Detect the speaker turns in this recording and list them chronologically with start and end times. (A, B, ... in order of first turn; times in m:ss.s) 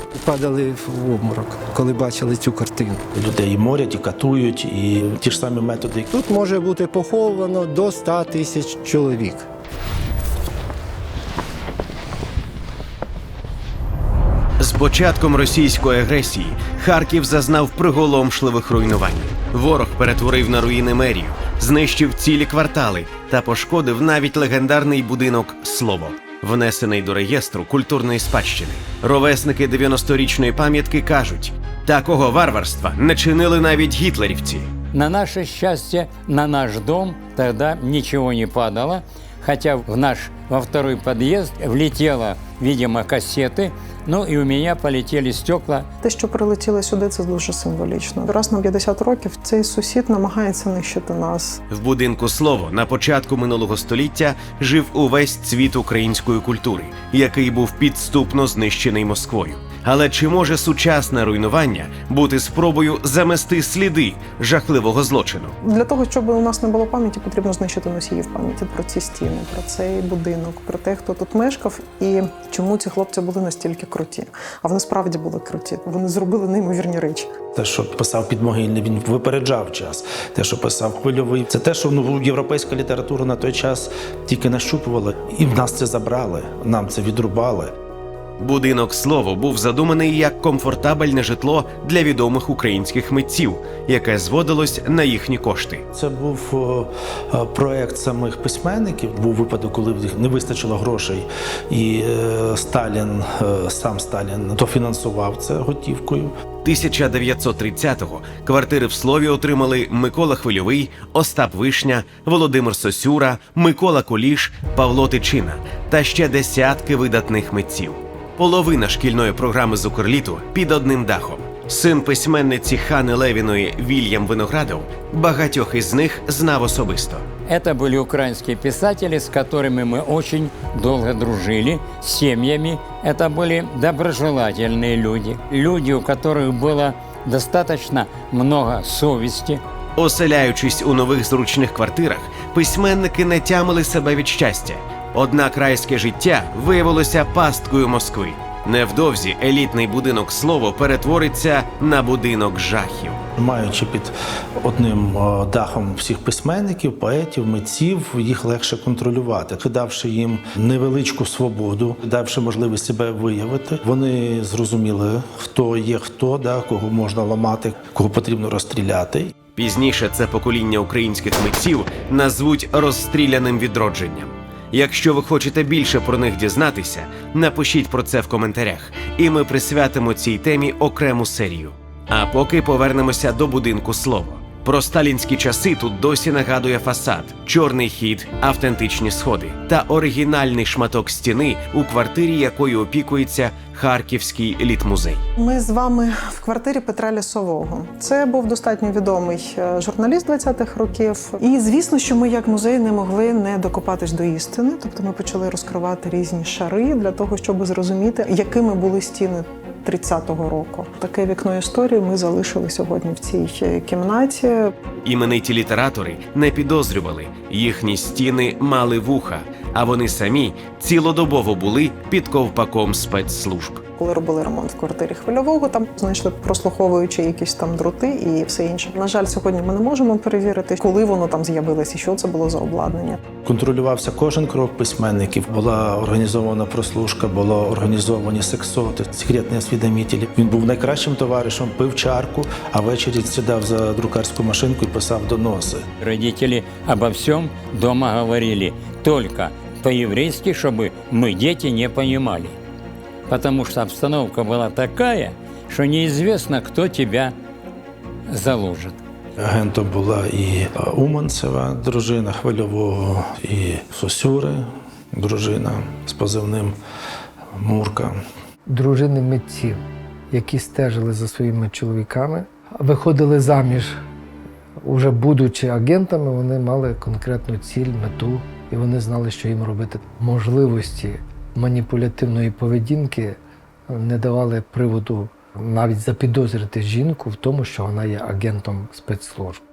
0:00.2-0:03.0 A
0:03.1-0:06.1 B
0:06.1-0:09.4 A
0:14.6-0:34.7 C
0:34.9-0:45.9 D
0:46.0-0:51.6 E
0:51.7-1:05.6 C
1:05.6-1:17.3 E
1:17.6-1:27.7 B
1:28.4-1:35.8 C
1:35.9-1:46.3 B
1:46.6-2:07.3 C
2:07.5-2:19.6 D
2:20.0-2:33.2 C
2:33.4-2:49.3 B
2:49.6-3:15.2 C
3:15.4-3:34.7 E
3:35.0-3:43.8 C
3:44.0-3:53.2 E
3:53.4-4:05.9 B
4:06.0-4:12.6 D
4:13.3-4:17.4 D
4:18.3-4:19.0 D
4:19.4-4:26.8 B
4:27.6-4:28.2 B
4:28.7-4:34.0 F
4:34.8-4:49.6 F